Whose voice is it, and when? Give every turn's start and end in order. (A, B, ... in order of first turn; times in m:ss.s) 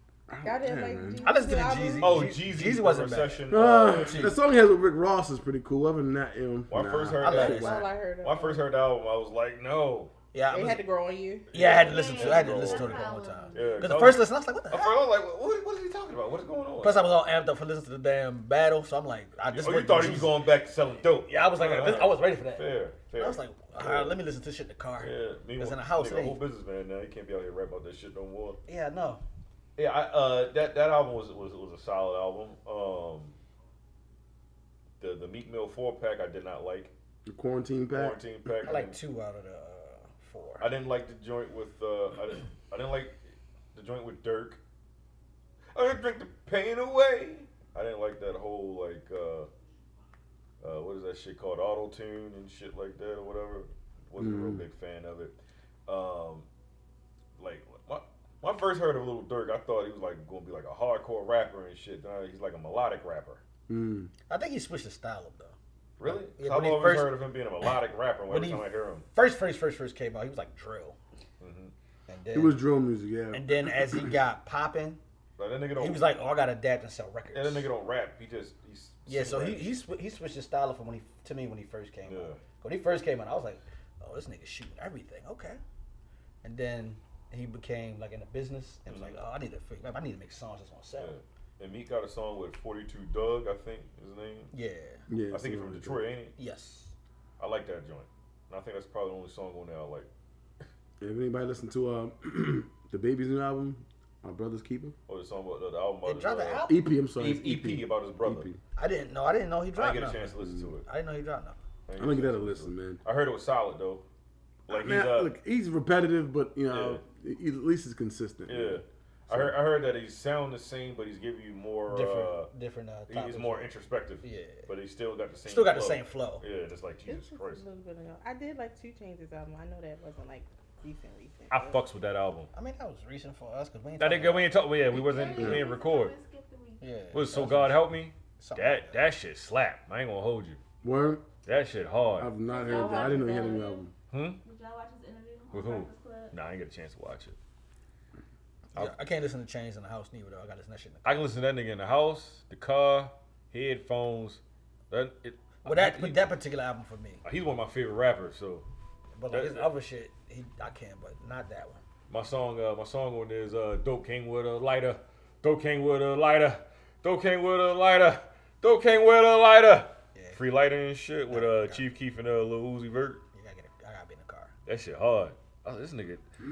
0:00.3-0:01.3 A
0:00.4-0:02.3 B
0:01.2-0:04.4 C
0:02.0-0:04.3 D
0:03.5-0:07.8 A
0:06.7-0:10.1 D
0:07.2-0:07.8 C
0:07.3-0:08.6 B
0:10.3-0:10.8 C
0:10.5-0:11.5 B
0:11.5-0:17.1 D
0:11.5-0:14.9 C
0:11.8-0:14.0 E
0:16.8-0:20.3 C
0:19.5-0:24.2 D
0:21.3-0:26.4 C
0:25.0-0:28.6 D
0:28.7-0:29.2 C
0:29.8-0:33.4 D
0:35.0-0:36.9 D
0:37.3-0:38.3 A
0:37.9-0:39.0 D
0:38.6-0:40.7 C
0:40.6-0:43.2 D
0:43.7-0:44.6 D
0:45.7-0:49.5 D
0:50.6-0:56.5 D
0:54.2-0:54.7 A
0:57.4-1:03.4 D
1:03.7-1:04.1 A
1:04.3-1:07.7 C
1:06.0-1:09.0 D
1:08.3-1:11.0 C
1:11.4-1:11.7 D
1:12.1-1:12.6 C
1:12.3-1:14.1 A
1:13.3-1:15.0 C
1:15.4-1:16.0 D
1:15.8-1:17.7 C
1:17.3-1:19.7 D
1:19.0-1:25.6 C
1:22.1-1:22.4 D
1:26.4-1:31.1 C
1:28.9-1:29.2 D
1:31.0-1:34.5 D
1:34.5-1:35.0 C
1:35.1-1:36.0 A
1:35.3-1:36.3 D
1:36.4-1:36.9 C
1:37.4-1:40.1 D
1:41.0-1:45.0 A
1:45.1-1:48.5 D
1:46.0-1:46.8 C
1:46.7-1:48.6 A
1:48.8-1:50.3 C
1:49.8-1:50.8 D
1:50.4-1:50.8 A
1:50.8-1:51.6 C
1:51.9-1:54.0 D
1:52.0-1:53.0 A
1:54.7-1:55.3 D
1:54.7-1:59.6 A
1:56.7-1:57.0 D
1:58.5-2:02.5 D
2:01.9-2:03.7 C
2:03.1-2:07.6 D
2:04.2-2:04.7 C
2:05.4-2:06.4 C
2:07.1-2:11.8 B
2:11.5-2:12.5 D
2:12.5-2:14.6 C
2:14.0-2:16.1 D
2:14.9-2:16.8 E
2:15.3-2:15.6 A
2:16.8-2:19.1 C
2:17.1-2:20.6 D
2:20.8-2:21.3 A
2:21.4-2:22.3 D
2:22.2-2:23.9 A
2:22.5-2:23.8 E
2:22.6-2:23.6 B
2:24.1-2:24.4 D
2:24.4-2:26.3 E
2:25.5-2:27.4 D
2:28.7-2:31.2 C
2:31.0-2:36.3 D
2:35.6-2:37.2 C
2:37.2-2:38.6 D
2:39.2-2:41.8 C
2:39.3-2:39.7 D
2:42.1-2:53.2 D
2:50.1-2:50.4 C
2:51.3-2:51.8 C
2:53.3-2:54.5 C
2:54.6-2:56.2 D